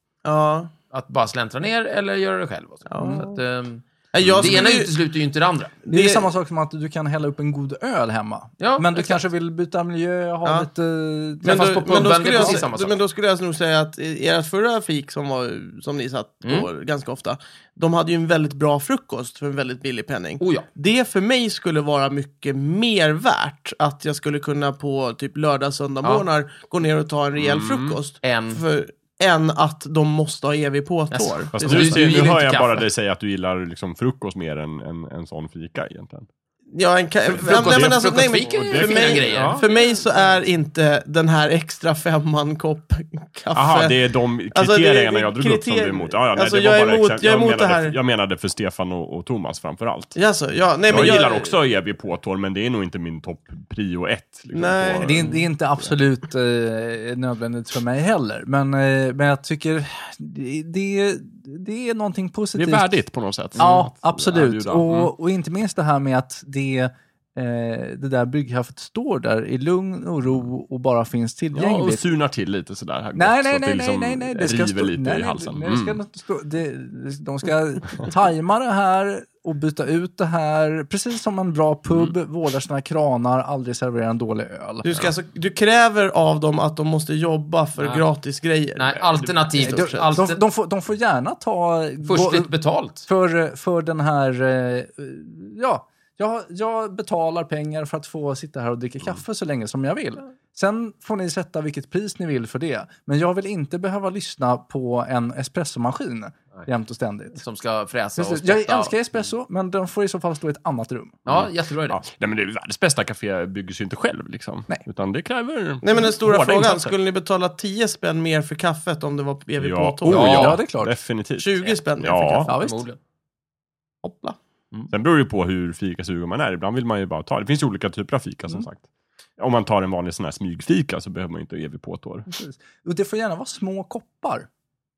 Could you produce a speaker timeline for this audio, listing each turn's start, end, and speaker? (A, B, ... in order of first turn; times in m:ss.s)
0:00.2-0:00.7 A
0:00.9-0:05.8 B
0:02.9-0:03.4 A
0:03.0-0:03.2 C
0:04.1-0:04.9 A
0:04.2-0:04.5 D
0:05.9-0:06.3 A
0:05.9-0:12.6 C
0:08.6-0:09.2 B
0:11.4-0:32.1 A
0:11.4-0:13.0 B
0:16.4-0:16.7 B
0:20.4-0:20.7 B
0:27.4-0:28.0 D
0:28.2-0:28.6 B
0:31.1-0:32.9 B
0:31.5-0:36.3 D
0:36.7-0:44.0 A
0:37.3-0:39.7 D
0:37.4-0:40.3 B
0:43.5-0:50.2 D
0:44.5-0:48.0 A
0:50.2-0:51.6 A
0:50.9-0:55.4 D
0:54.5-0:55.4 A
0:55.0-1:02.9 C
1:02.6-1:05.1 D
1:03.5-1:12.0 C
1:11.5-1:16.0 D
1:13.1-1:25.0 C
1:21.9-1:22.1 D
1:24.8-1:30.1 A
1:28.8-1:30.4 B
1:29.6-1:32.5 C
1:32.0-1:33.1 B
1:33.0-1:47.4 C
1:47.4-1:49.2 B
1:48.2-1:51.2 C
1:51.3-1:52.0 B
1:51.3-1:56.9 D
1:55.8-2:00.6 A
1:59.6-2:02.5 D
2:00.0-2:00.9 C
2:01.4-2:02.5 A
2:02.5-2:02.8 C
2:02.5-2:03.0 B
2:04.0-2:04.4 A
2:04.9-2:08.8 D
2:09.4-2:12.3 D
2:12.3-2:14.5 C